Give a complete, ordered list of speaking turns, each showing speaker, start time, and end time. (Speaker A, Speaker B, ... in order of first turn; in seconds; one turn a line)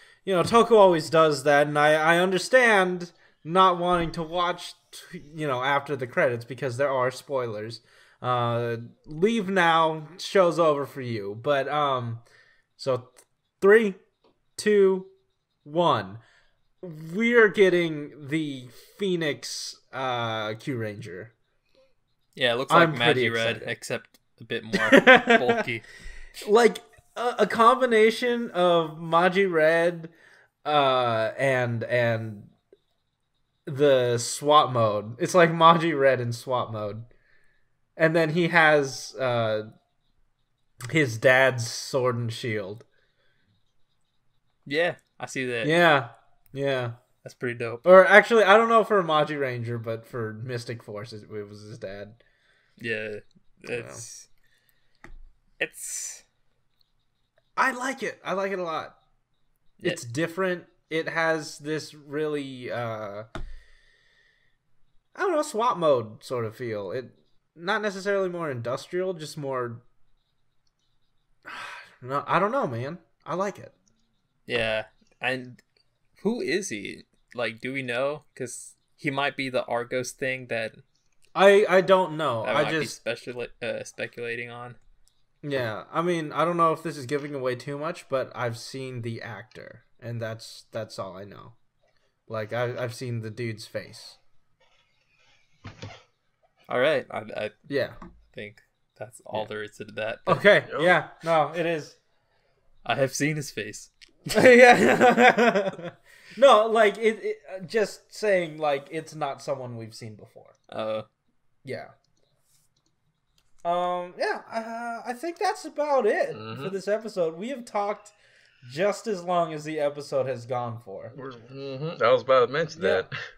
Speaker A: 0.2-12.2
Speaker A: 12.8-14.0
Speaker A: 14.6-15.1
Speaker A: 15.6-16.2
Speaker A: 16.8-21.3
Speaker B: 22.4-25.9
Speaker A: 22.7-23.7
Speaker A: 24.7-25.6
Speaker A: 26.4-30.1
Speaker A: 30.6-32.5
Speaker A: 33.6-37.1
Speaker A: 38.0-39.7
Speaker A: 40.9-42.9
Speaker B: 44.6-45.8
Speaker A: 45.6-47.0
Speaker B: 47.2-47.8
Speaker A: 47.8-52.2
Speaker B: 52.8-54.3
Speaker A: 53.7-54.0
Speaker B: 55.6-56.2
Speaker A: 57.5-59.0
Speaker A: 59.8-63.3
Speaker A: 65.1-69.8
Speaker A: 71.5-73.7
Speaker B: 74.5-75.6
Speaker B: 76.2-80.8
Speaker A: 81.3-83.0
Speaker B: 82.4-84.8
Speaker A: 85.4-91.5
Speaker A: 92.3-94.2
Speaker B: 96.7-97.6
Speaker A: 97.7-98.0
Speaker B: 98.3-100.5
Speaker A: 100.3-102.0
Speaker C: 100.7-101.0
Speaker B: 102.8-103.9
Speaker A: 104.3-110.5
Speaker B: 110.7-111.0
Speaker A: 111.6-111.9
Speaker A: 113.6-121.1
Speaker C: 116.3-116.7
Speaker C: 121.1-123.1
Speaker A: 122.7-123.0